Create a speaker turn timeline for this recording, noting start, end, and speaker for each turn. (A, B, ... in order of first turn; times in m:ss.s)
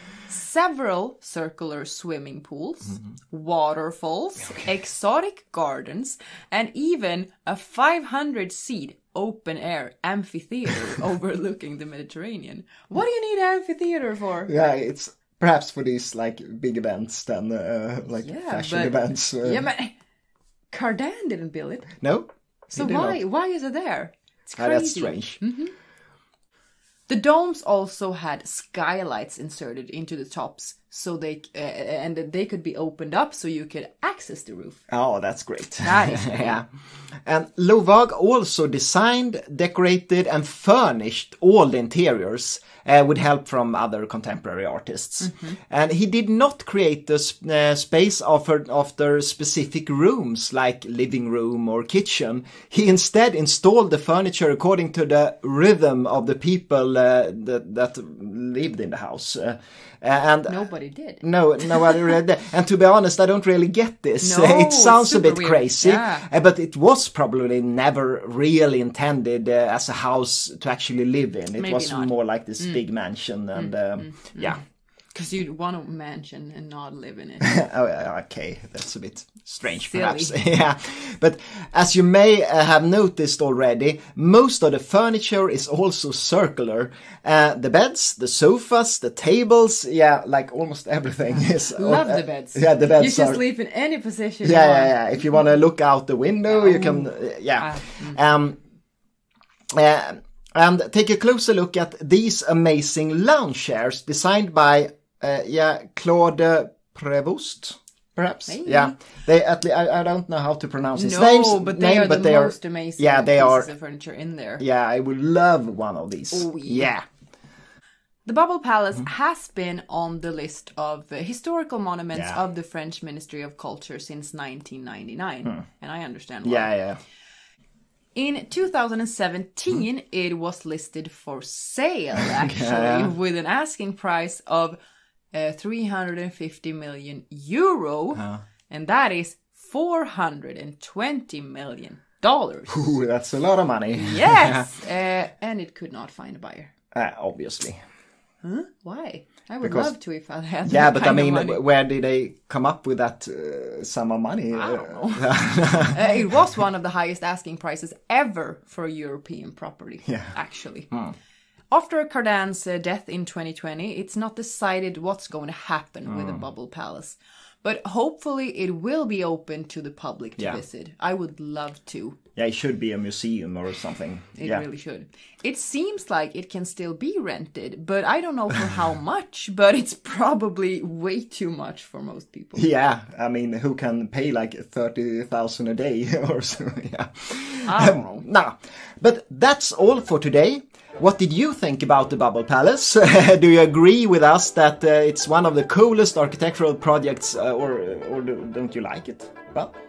0:00.2-0:14.5 A
0:14.5-0:19.6 B
0:18.2-0:19.9 A
0:20.7-0:21.9 A
0:22.0-0:23.2 B
0:22.7-0:25.7 A
0:24.6-0:25.4 B
0:27.1-0:34.8 A
0:34.9-0:36.7 B
0:35.8-0:36.6 A
0:37.3-1:00.7 B
0:45.2-0:45.6 A
1:00.5-1:01.9 A
1:01.2-1:14.6 B
1:04.2-1:06.3 A
1:11.6-1:12.8 A
1:13.6-1:14.6 A
1:15.1-1:17.6 A
1:17.4-1:33.4 B
1:19.7-1:20.4 A
1:31.7-1:35.4 A
1:34.4-1:38.6 B
1:36.5-1:38.2 A
1:39.7-1:53.7 B
1:48.5-1:49.0 A
1:51.0-1:54.6 A
1:54.6-1:57.0 B
1:56.3-1:56.9 A
1:58.2-2:06.7 A
2:02.1-2:02.4 B
2:06.4-2:07.0 B
2:08.2-2:14.8 A
2:12.4-2:13.1 B
2:15.3-2:22.8 A
2:22.7-2:24.7 B
2:23.9-2:26.7 A
2:26.9-2:27.8 B
2:28.4-2:31.6 A
2:29.6-2:29.9 B
2:30.6-2:36.0 B
2:34.5-2:40.9 A
2:40.0-2:40.3 B
2:41.7-2:52.2 A
2:46.1-2:46.4 B
2:52.4-2:54.6 B
2:54.4-3:02.7 A
3:02.6-3:19.7 B
3:07.7-3:08.2 A